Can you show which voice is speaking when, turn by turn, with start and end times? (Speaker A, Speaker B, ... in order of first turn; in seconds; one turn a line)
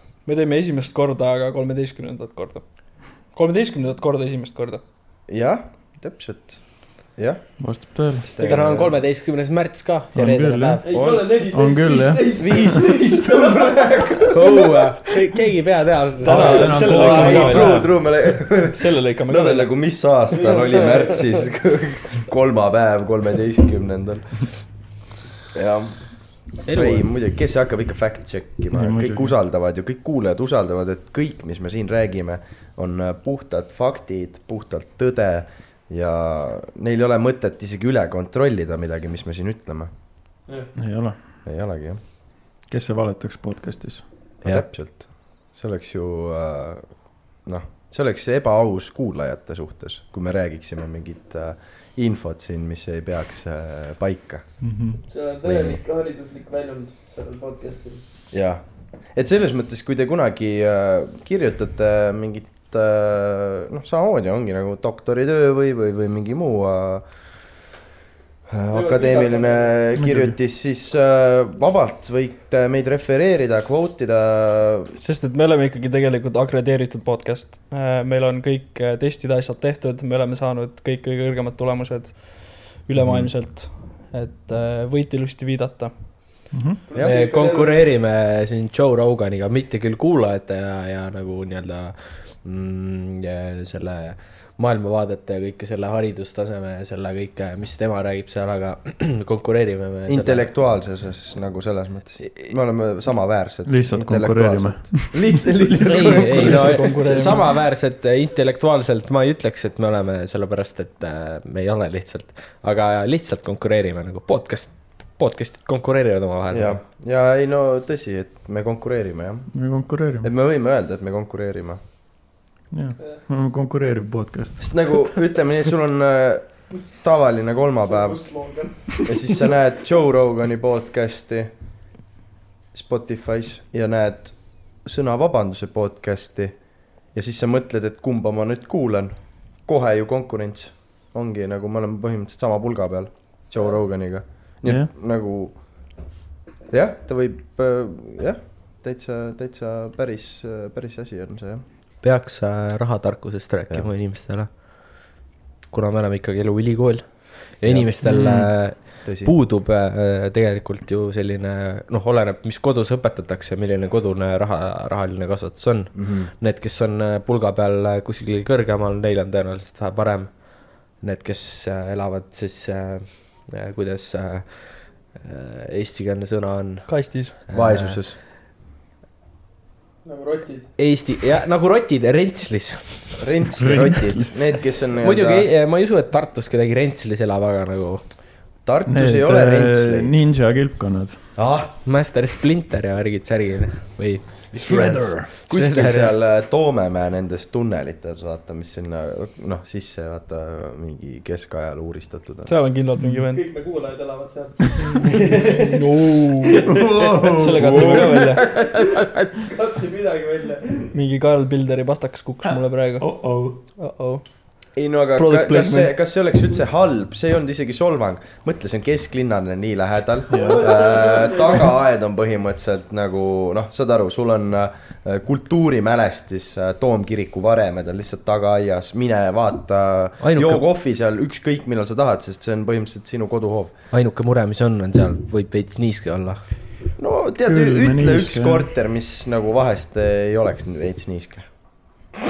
Speaker A: 0.2-4.8
Speaker B: 5.3-7.7
Speaker C: 7.6-8.3
Speaker B: 8.2-9.0
Speaker D: 8.4-10.8
Speaker C: 10.1-11.0
Speaker E: 10.8-14.8
Speaker B: 10.9-11.5
Speaker C: 11.5-12.6
Speaker B: 12.4-14.5
Speaker D: 14.3-17.6
Speaker A: 16.2-19.7
Speaker C: 16.3-17.9
Speaker B: 16.5-24.5
Speaker B: 25.5-39.9
Speaker D: 26.7-27.0
Speaker C: 28.7-29.3
Speaker C: 40.8-41.2
Speaker B: 41.4-42.0
Speaker C: 42.6-44.1
Speaker B: 44.4-54.5
Speaker C: 54.6-55.0
Speaker E: 55.1-58.0
Speaker B: 55.4-55.8
Speaker B: 58.3-58.6
Speaker B: 59.1-67.0
Speaker B: 68.5-74.9
Speaker E: 68.7-69.9
Speaker C: 70.0-70.3
Speaker A: 75.0-85.9
Speaker B: 83.0-83.3
Speaker C: 86.5-86.8
Speaker E: 86.9-87.9
Speaker D: 87.0-100.5
Speaker B: 100.1-107.4
Speaker C: 103.7-106.7
Speaker D: 105.8-116.8
Speaker A: 106.4-107.4
Speaker B: 116.5-119.5
Speaker C: 119.5-120.3
Speaker B: 120.2-121.8
Speaker C: 122.7-124.9
Speaker B: 124.6-128.4
Speaker E: 127.8-128.9
Speaker B: 129.0-131.5
Speaker B: 132.7-146.0
Speaker C: 144.6-144.9
Speaker B: 146.7-151.6
Speaker D: 152.0-155.1
Speaker D: 155.7-178.0
Speaker B: 157.6-158.0
Speaker C: 158.0-158.5
Speaker B: 159.0-159.3
Speaker B: 165.9-166.3
Speaker A: 176.9-177.3
Speaker B: 177.5-178.2
Speaker E: 180.0-180.7
Speaker D: 180.8-183.2
Speaker B: 183.2-185.5
Speaker C: 183.6-184.4
Speaker D: 185.0-188.0
Speaker B: 188.6-190.2
Speaker C: 188.9-191.2
Speaker B: 191.3-191.7
Speaker D: 191.8-196.2
Speaker C: 194.5-195.2
Speaker B: 195.5-202.5
Speaker A: 202.4-203.4
Speaker E: 203.3-205.8
Speaker A: 204.9-206.6
Speaker B: 207.1-208.2
Speaker C: 207.2-207.9
Speaker A: 207.2-208.4
Speaker E: 209.5-210.9
Speaker A: 210.9-213.1
Speaker C: 212.5-213.6
Speaker A: 213.8-214.2
Speaker B: 214.8-233.7
Speaker A: 215.2-215.9
Speaker E: 220.3-221.7
Speaker C: 220.3-220.6
Speaker D: 230.2-230.7
Speaker D: 233.9-236.4
Speaker B: 237.0-241.5
Speaker C: 237.4-238.7